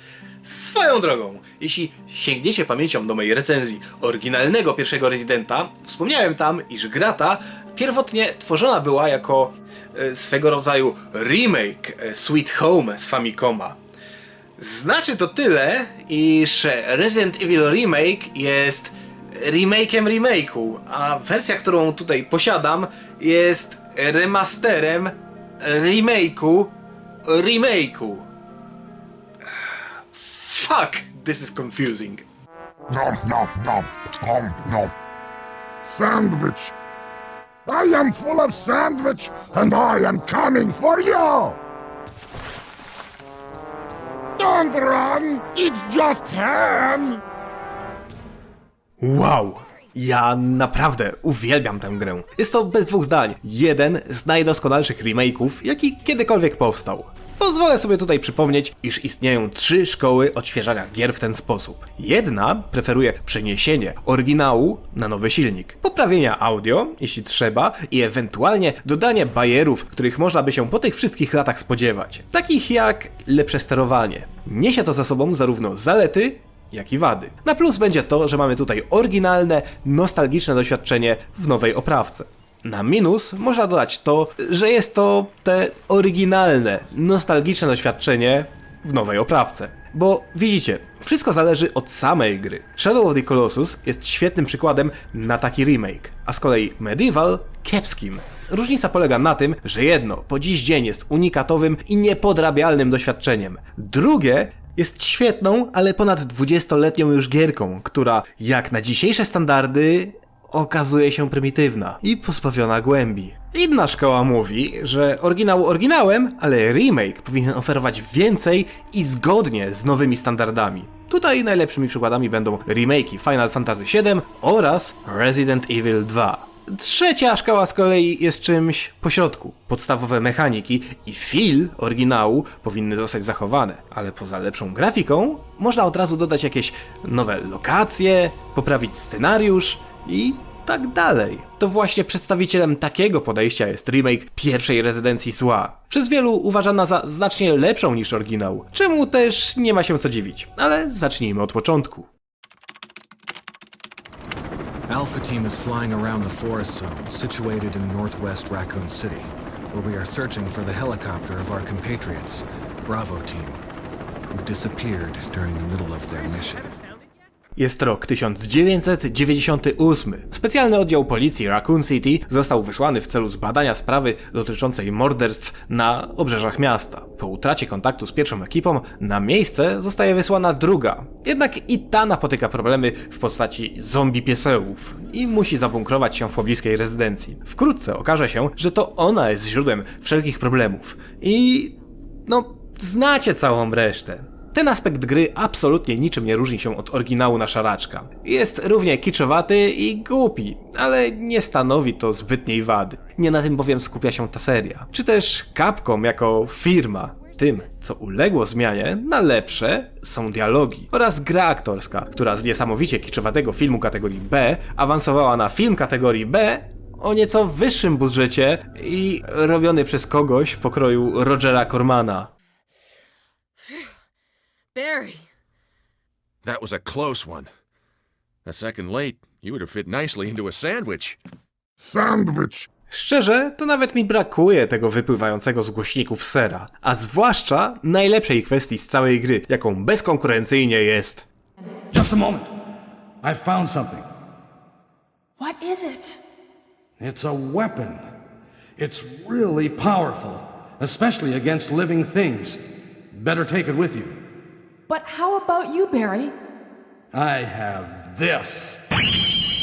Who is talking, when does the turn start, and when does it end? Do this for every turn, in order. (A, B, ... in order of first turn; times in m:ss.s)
0:00.4-0:13.8 A
0:14.6-0:26.7 A
0:27.3-0:28.2 A
0:30.1-0:32.2 A
0:32.9-0:34.9 B
0:35.8-0:36.7 B
0:37.7-0:41.6 B
0:44.4-0:47.2 B
0:49.0-2:32.1 A
2:34.9-2:43.6 C
2:44.3-2:46.7 C
2:47.6-3:11.8 A
3:12.3-3:42.3 A
3:46.4-3:47.5 D
3:48.4-3:51.2 D
3:51.8-3:52.7 B
3:52.9-4:01.3 A
4:01.9-4:02.5 E
4:03.2-4:04.1 E
4:05.4-4:06.2 F
4:07.0-4:08.0 E
4:08.8-4:12.6 E
4:13.1-4:14.2 E
4:14.9-4:16.3 F
4:17.1-4:18.8 E